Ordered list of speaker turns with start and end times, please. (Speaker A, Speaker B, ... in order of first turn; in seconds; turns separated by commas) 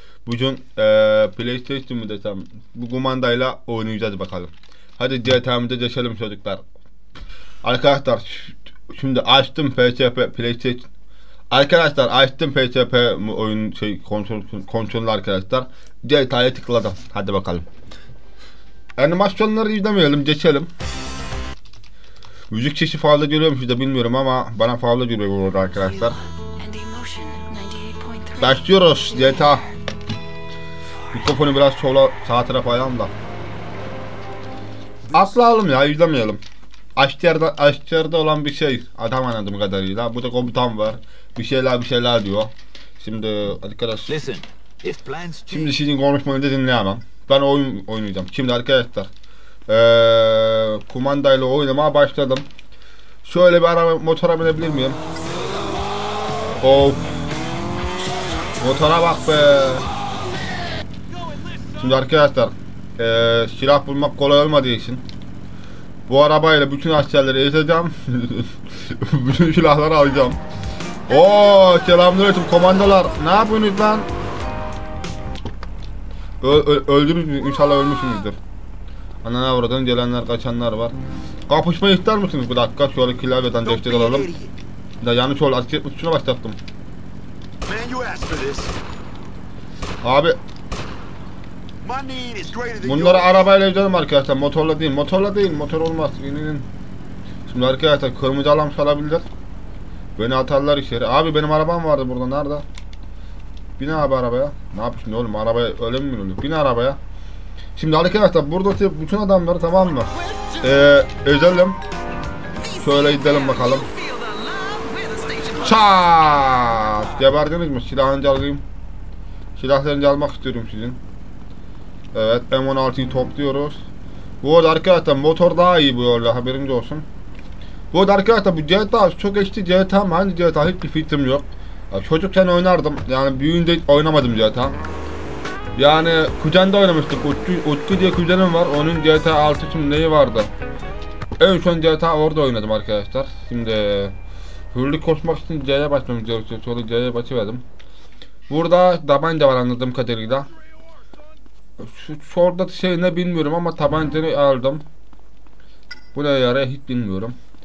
Speaker A: 0.2-6.6, Speaker A: 7.6-10.9, Speaker A: 11.5-17.6, Speaker A: 19.0-20.7, Speaker A: 22.5-26.2, Speaker B: 26.6-28.2, Speaker A: 28.4-29.7, Speaker A: 31.1-33.1, Speaker A: 35.1-36.4, Speaker A: 37.0-44.2, Speaker C: 44.1-45.6, Speaker A: 45.5-49.1, Speaker A: 49.7-52.5, Speaker A: 53.2-55.0, Speaker A: 56.6-57.2, Speaker A: 58.6-59.9, Speaker B: 61.3-61.6, Speaker A: 61.8-65.0, Speaker A: 66.1-70.4, Speaker A: 71.1-74.1, Speaker A: 76.4-78.4, Speaker A: 79.2-81.0, Speaker A: 81.5-84.3, Speaker C: 83.6-84.5, Speaker A: 85.0-86.6, Speaker C: 87.6-88.8, Speaker A: 90.0-90.4, Speaker C: 91.8-93.4, Speaker A: 92.8-96.7, Speaker A: 97.5-99.2, Speaker A: 100.2-102.6, Speaker A: 103.8-107.0, Speaker A: 107.8-111.8, Speaker A: 112.8-113.9, Speaker B: 113.9-115.7, Speaker A: 115.5-118.7, Speaker A: 119.5-121.0, Speaker A: 122.1-123.8, Speaker A: 124.4-127.1, Speaker A: 127.9-134.8, Speaker A: 135.8-140.5, Speaker A: 141.4-144.1, Speaker A: 144.7-147.6, Speaker A: 148.5-150.5, Speaker A: 151.8-154.8, Speaker A: 156.1-157.4